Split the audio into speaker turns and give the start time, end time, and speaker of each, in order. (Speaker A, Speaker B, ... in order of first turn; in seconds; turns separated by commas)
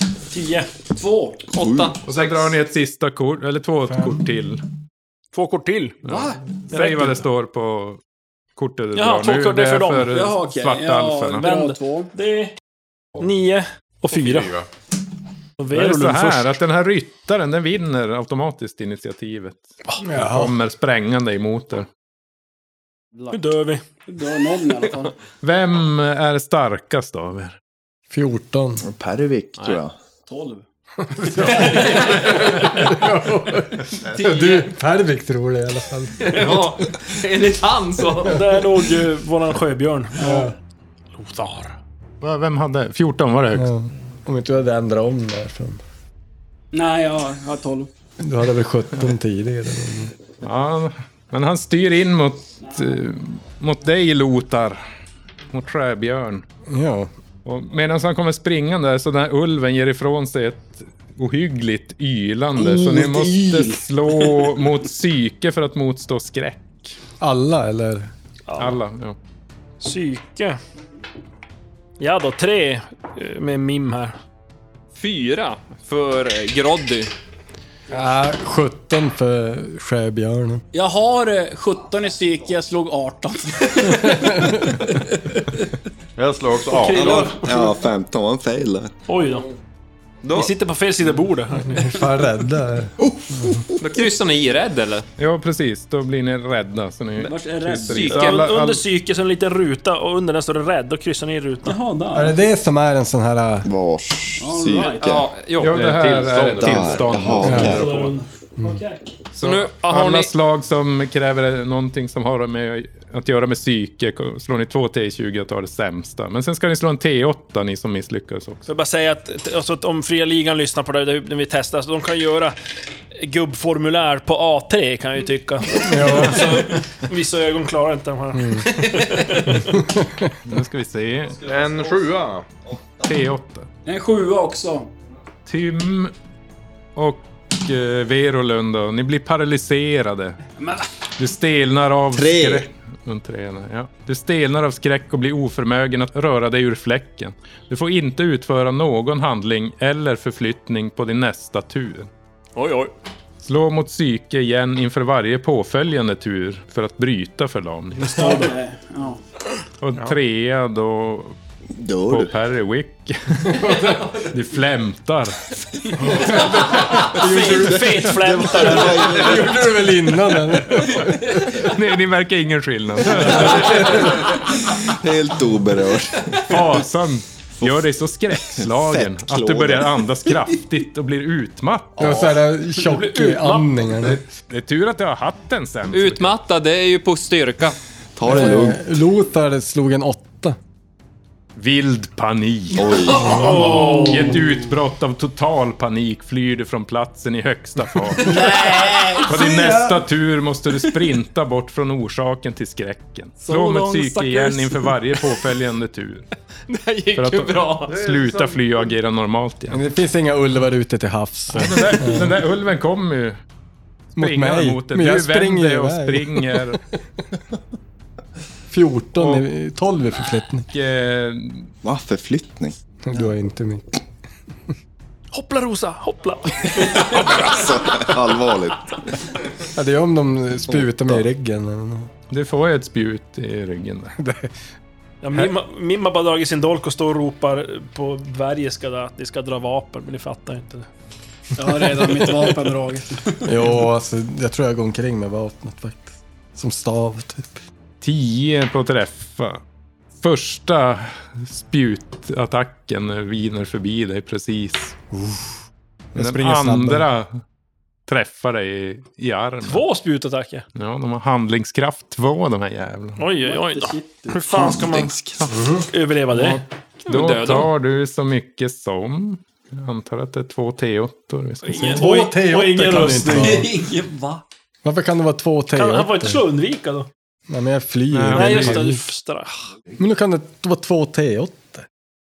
Speaker A: 0.3-0.7, Speaker B: 0.9-1.4, Speaker C: 1.5-2.5, Speaker D: 1.6-2.0, Speaker E: 2.0-4.6, Speaker F: 3.9-4.2, Speaker A: 5.3-6.0, Speaker E: 6.0-8.0, Speaker B: 6.1-6.3, Speaker A: 6.7-7.2, Speaker E: 8.6-11.5, Speaker A: 8.9-10.2, Speaker B: 10.1-12.1, Speaker A: 11.4-12.5, Speaker A: 13.2-14.6, Speaker G: 14.1-14.7, Speaker A: 15.6-16.6, Speaker E: 15.7-21.9, Speaker F: 20.0-20.6, Speaker A: 23.3-23.8, Speaker B: 24.1-25.1, Speaker E: 25.4-27.6, Speaker F: 28.1-28.8, Speaker D: 28.8-29.9, Speaker B: 30.3-30.6, Speaker F: 31.1-36.5, Speaker B: 31.3-32.3, Speaker C: 34.2-34.7, Speaker C: 36.2-38.5, Speaker A: 38.2-40.5, Speaker F: 40.2-40.5, Speaker A: 41.2-41.8, Speaker E: 42.2-43.7, Speaker F: 43.5-45.8, Speaker B: 46.7-47.9, Speaker F: 48.2-50.1, Speaker E: 50.4-54.8, Speaker E: 55.5-56.5, Speaker F: 56.7-57.1, Speaker E: 57.5-67.0, Speaker D: 62.6-63.6, Speaker F: 67.2-68.1, Speaker A: 68.5-68.8, Speaker E: 68.6-69.2, Speaker A: 69.8-70.6, Speaker A: 72.0-74.2, Speaker C: 75.0-77.1, Speaker F: 77.9-80.6, Speaker B: 80.7-84.8, Speaker F: 84.0-84.8, Speaker G: 86.2-87.4, Speaker A: 86.7-87.8, Speaker D: 86.9-88.9, Speaker A: 89.1-89.5, Speaker C: 90.2-90.5, Speaker A: 90.3-92.0, Speaker F: 91.6-93.6, Speaker C: 93.8-95.1, Speaker E: 95.2-98.8, Speaker B: 97.2-98.4, Speaker A: 97.8-101.8, Speaker B: 101.6-102.4, Speaker F: 102.1-103.7, Speaker D: 103.6-105.3, Speaker B: 104.4-105.1, Speaker C: 104.8-106.5, Speaker E: 105.6-108.1, Speaker G: 105.7-107.6, Speaker D: 106.6-108.1, Speaker F: 107.4-107.8, Speaker A: 107.6-109.2, Speaker E: 109.4-118.7, Speaker C: 109.4-110.3, Speaker A: 118.7-122.6, Speaker A: 123.1-129.8, Speaker F: 125.8-126.7, Speaker F: 128.3-128.7, Speaker F: 129.6-130.4, Speaker E: 130.4-131.5, Speaker G: 131.4-132.5, Speaker D: 132.7-133.1, Speaker E: 133.0-133.7, Speaker B: 133.9-134.9, Speaker E: 135.5-136.1, Speaker E: 136.9-140.4, Speaker B: 140.6-140.9, Speaker E: 141.2-152.1, Speaker D: 142.1-142.7, Speaker A: 152.6-152.9, Speaker E: 153.4-158.2, Speaker B: 158.0-159.2, Speaker A: 158.1-158.5, Speaker E: 159.8-161.4, Speaker D: 161.7-162.3, Speaker E: 162.1-166.4, Speaker F: 163.6-164.1, Speaker F: 166.0-171.7, Speaker A: 167.2-169.3, Speaker D: 168.1-169.7, Speaker E: 170.8-174.2, Speaker F: 173.2-174.1, Speaker D: 173.5-176.7, Speaker E: 176.4-182.2, Speaker D: 177.6-180.3, Speaker F: 182.0-184.2, Speaker A: 182.8-183.9, Speaker E: 184.0-186.3, Speaker C: 185.9-187.8, Speaker D: 188.2-188.8, Speaker F: 188.3-190.6, Speaker E: 191.6-198.7, Speaker D: 192.7-193.6, Speaker F: 193.2-193.9, Speaker A: 193.2-194.4, Speaker B: 193.4-194.4, Speaker B: 198.2-199.5, Speaker E: 199.2-206.3, Speaker B: 203.4-204.8, Speaker C: 206.7-208.0, Speaker E: 207.2-209.8, Speaker G: 207.9-208.7, Speaker F: 209.7-212.4, Speaker E: 211.5-213.4, Speaker E: 214.2-216.8, Speaker F: 214.2-216.8, Speaker F: 218.7-220.7, Speaker E: 219.2-219.4, Speaker E: 220.7-221.7, Speaker D: 221.8-222.8, Speaker F: 223.0-224.0, Speaker A: 225.3-227.7, Speaker D: 226.8-229.0, Speaker F: 229.7-232.1, Speaker D: 230.7-231.2, Speaker E: 232.3-234.2, Speaker F: 234.2-234.5, Speaker A: 235.2-240.9, Speaker B: 241.6-243.5, Speaker A: 242.1-242.5, Speaker F: 243.4-247.6, Speaker E: 248.0-249.6, Speaker E: 250.2-255.0, Speaker F: 255.1-255.5, Speaker F: 256.1-257.1, Speaker E: 256.1-257.4, Speaker E: 258.1-259.9, Speaker A: 259.6-260.6, Speaker E: 260.8-263.2, Speaker A: 263.2-265.2, Speaker B: 263.4-264.4, Speaker D: 264.5-265.5, Speaker F: 265.5-265.9, Speaker A: 265.9-266.6, Speaker E: 266.3-272.0, Speaker C: 267.1-267.7, Speaker A: 271.6-273.7, Speaker F: 271.8-273.7, Speaker B: 273.3-274.4, Speaker F: 274.8-276.4, Speaker A: 275.7-277.1, Speaker F: 277.5-279.1, Speaker E: 278.1-278.9, Speaker A: 278.3-279.6, Speaker F: 280.0-281.9